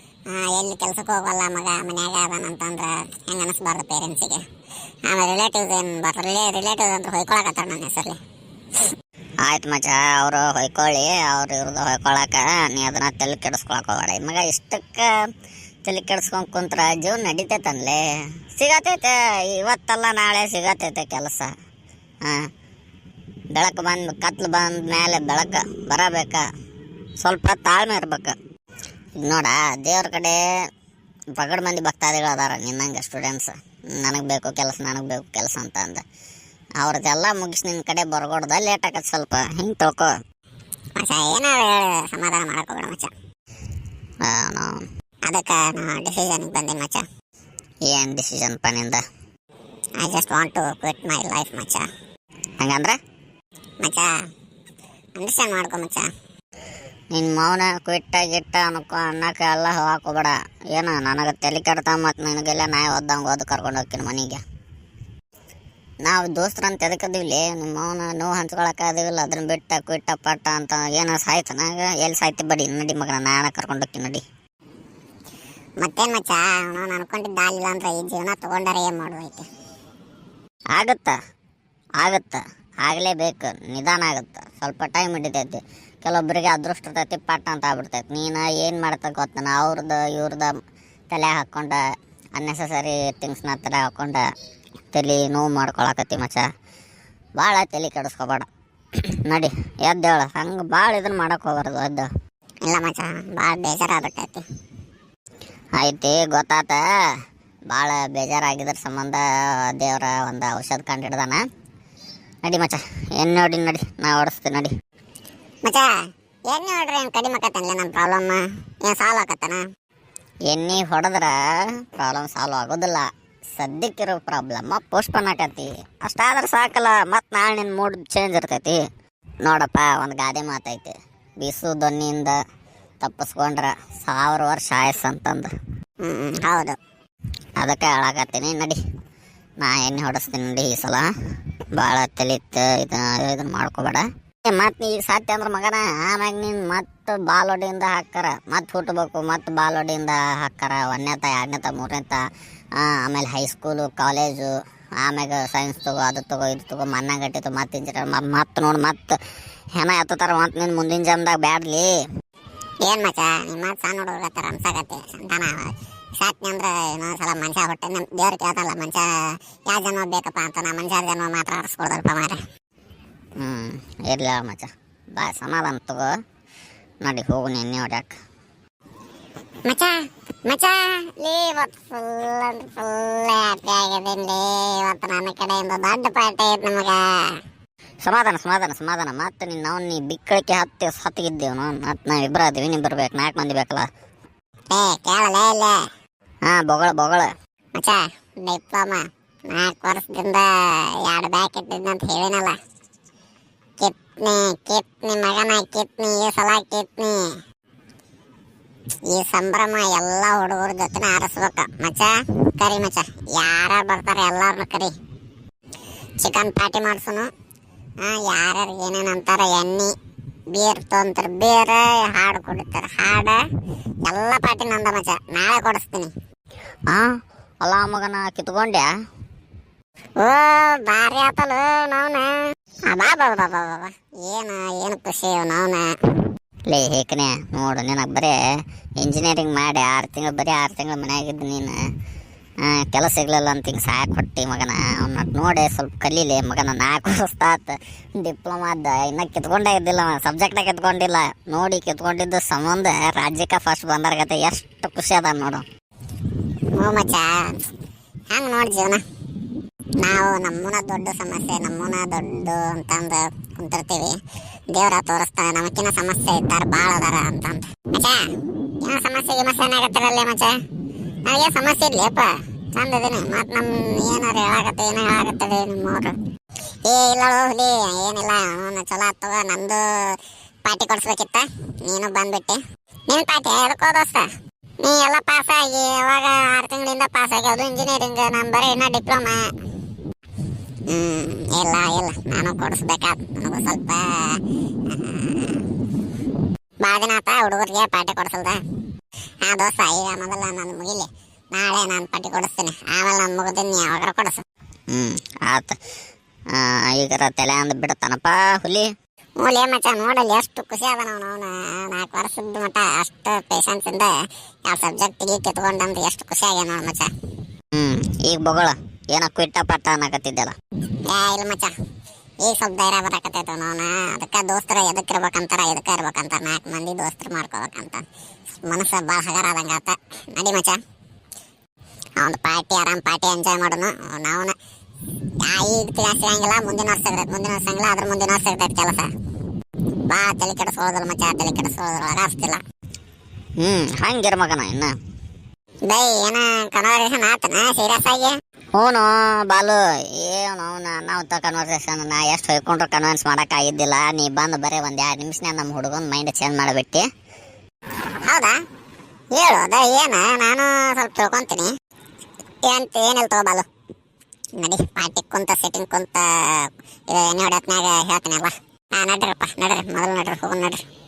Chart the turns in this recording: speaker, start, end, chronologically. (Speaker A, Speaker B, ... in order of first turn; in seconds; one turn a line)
Speaker A: 0.3-4.4
Speaker A: 5.1-8.2
Speaker B: 9.4-15.1
Speaker B: 15.8-18.0
Speaker B: 18.6-21.5
Speaker B: 22.2-22.5
Speaker B: 23.5-26.4
Speaker B: 27.2-28.4
Speaker B: 29.2-30.4
Speaker B: 31.4-36.0
Speaker B: 36.8-40.1
Speaker A: 41.0-43.1
Speaker B: 44.2-44.8
Speaker A: 45.3-47.1
Speaker B: 47.9-49.0
Speaker A: 50.0-51.9
Speaker B: 52.6-53.0
Speaker A: 53.8-54.1
Speaker A: 55.2-56.1
Speaker B: 57.1-64.4
Speaker B: 66.0-74.2
Speaker A: 75.8-79.5
Speaker B: 80.8-81.2
Speaker B: 82.0-90.5
Speaker B: 91.1-91.8
Speaker B: 92.4-94.2
Speaker B: 94.9-96.5
Speaker B: 97.4-98.5
Speaker B: 99.2-102.1
Speaker A: 102.7-104.4
Speaker B: 105.8-106.8
Speaker B: 107.7-111.4
Speaker B: 112.4-114.7
Speaker A: 116.5-119.6
Speaker B: 120.5-121.4
Speaker B: 122.0-128.8
Speaker B: 129.4-132.4
Speaker B: 133.0-135.5
Speaker A: 136.0-136.8
Speaker B: 137.6-138.8
Speaker B: 139.6-141.1
Speaker B: 141.8-152.2
Speaker B: 152.8-159.2
Speaker B: 159.8-161.9
Speaker A: 162.8-169.1
Speaker A: 169.7-172.4
Speaker B: 173.4-176.1
Speaker B: 177.0-178.1
Speaker A: 179.7-187.0
Speaker B: 188.0-193.9
Speaker A: 194.7-195.8
Speaker B: 196.5-197.3
Speaker A: 197.8-200.5
Speaker A: 201.0-202.6
Speaker A: 203.8-207.2
Speaker A: 209.1-214.9
Speaker A: 216.2-217.3
Speaker A: 218.0-219.9
Speaker A: 220.5-223.4
Speaker A: 224.0-226.1
Speaker B: 227.6-228.9
Speaker A: 230.2-232.4
Speaker A: 232.9-235.9
Speaker B: 236.7-238.4
Speaker B: 239.0-241.8
Speaker B: 242.6-255.6
Speaker A: 256.7-257.6
Speaker A: 258.3-259.0
Speaker A: 260.0-264.2
Speaker A: 264.7-268.3
Speaker A: 268.8-270.5
Speaker A: 271.3-276.1
Speaker A: 276.9-279.8
Speaker A: 280.6-284.3
Speaker A: 284.8-289.5
Speaker A: 290.9-294.1
Speaker A: 294.9-295.6
Speaker A: 296.8-298.6
Speaker A: 299.4-304.4
Speaker B: 304.9-305.8
Speaker B: 306.5-308.9
Speaker A: 309.4-314.1
Speaker A: 314.7-317.1
Speaker B: 317.8-320.6
Speaker A: 321.1-321.7
Speaker A: 322.4-328.1
Speaker A: 328.6-330.8
Speaker A: 332.2-334.6
Speaker A: 335.4-339.1
Speaker A: 340.1-342.6
Speaker B: 343.6-344.9
Speaker A: 345.9-348.3
Speaker B: 348.8-357.1
Speaker A: 358.2-358.6
Speaker A: 359.3-361.7
Speaker A: 362.6-363.6
Speaker A: 364.6-370.8